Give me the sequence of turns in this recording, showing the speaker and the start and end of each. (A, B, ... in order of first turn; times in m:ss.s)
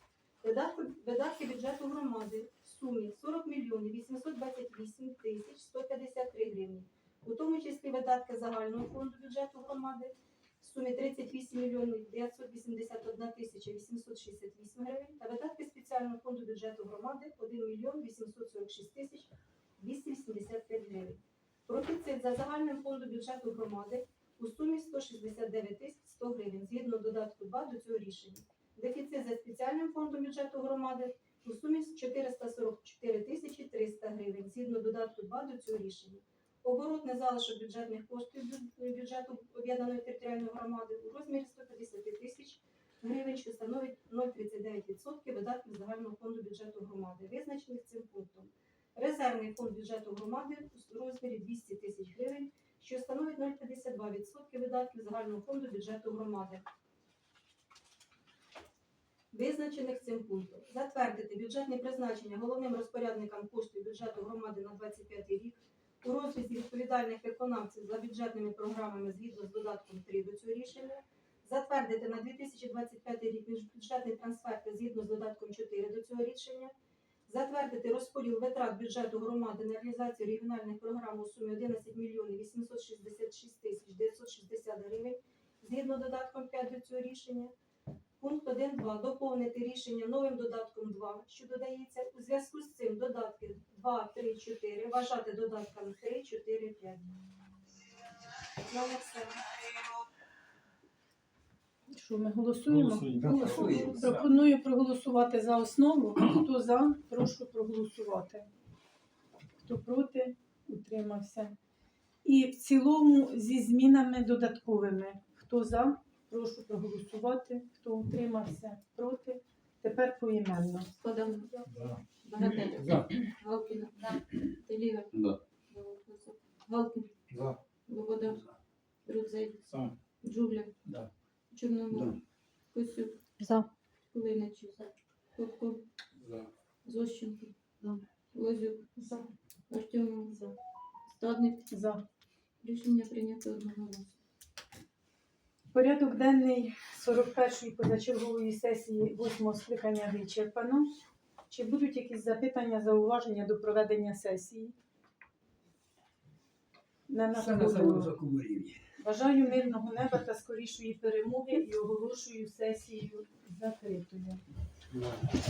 0:00.4-0:56.6 A
0:59.3-1:16.7 A
1:17.3-1:27.5 A
1:28.2-1:37.1 A
1:38.6-1:39.4 A
1:41.9-1:48.5 B
1:43.1-1:44.2 C
1:49.6-1:51.6 B
1:52.2-2:00.9 B
2:00.9-2:01.6 D
2:02.2-2:05.1 D
2:05.1-2:05.4 C
2:05.7-2:07.1 D
2:07.9-2:08.4 D
2:09.0-2:10.7 D
2:11.5-2:12.2 D
2:12.7-2:13.2 D
2:13.4-2:13.7 B
2:14.1-2:15.8 D
2:16.8-2:20.6 D
2:21.1-2:21.7 D
2:21.7-2:22.0 B
2:22.6-2:24.1 D
2:25.7-2:30.9 B
2:31.5-2:34.7 B
2:37.1-2:38.1 B
2:37.3-2:38.8 C
2:39.0-2:44.4 B